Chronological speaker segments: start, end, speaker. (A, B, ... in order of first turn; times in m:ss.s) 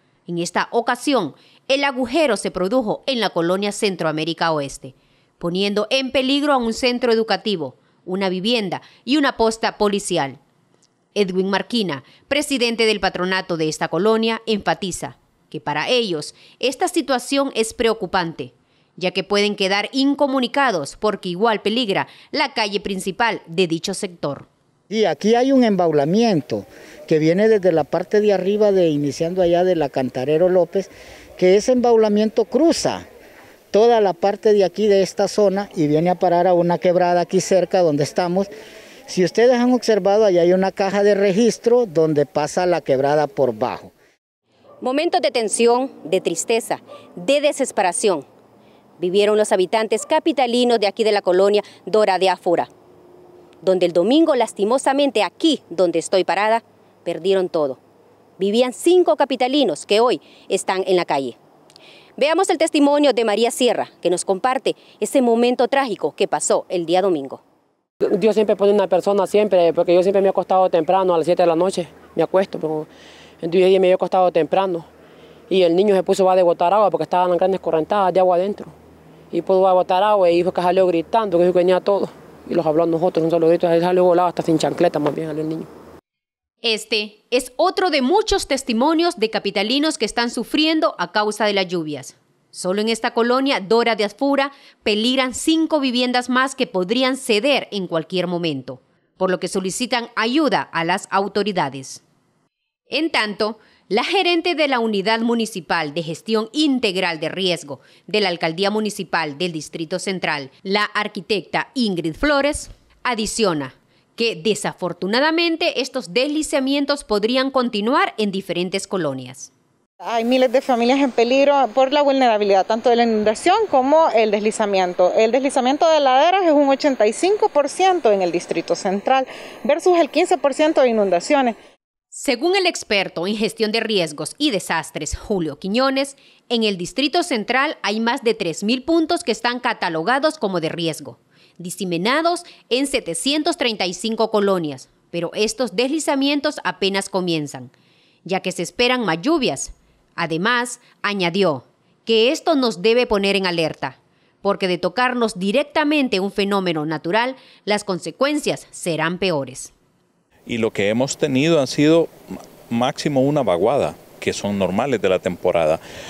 0:00.3-0:10.4 A
0:11.1-0:24.5 A
0:24.9-0:33.0 B
0:33.7-0:38.5 B
0:39.1-0:43.9 B
0:44.8-0:48.2 A
0:49.0-0:52.7 A
0:53.6-0:57.8 A
0:58.4-1:01.4 A
1:02.2-1:07.4 A
1:08.1-1:12.9 C
1:13.4-1:14.9 C
1:15.5-1:18.7 C
1:19.3-1:25.7 C
1:26.6-1:42.0 A
1:42.9-1:59.5 A
2:00.0-2:11.6 D
2:12.1-2:27.7 A
2:28.2-2:39.7 A
2:40.4-2:42.1 E
2:42.7-2:45.8 E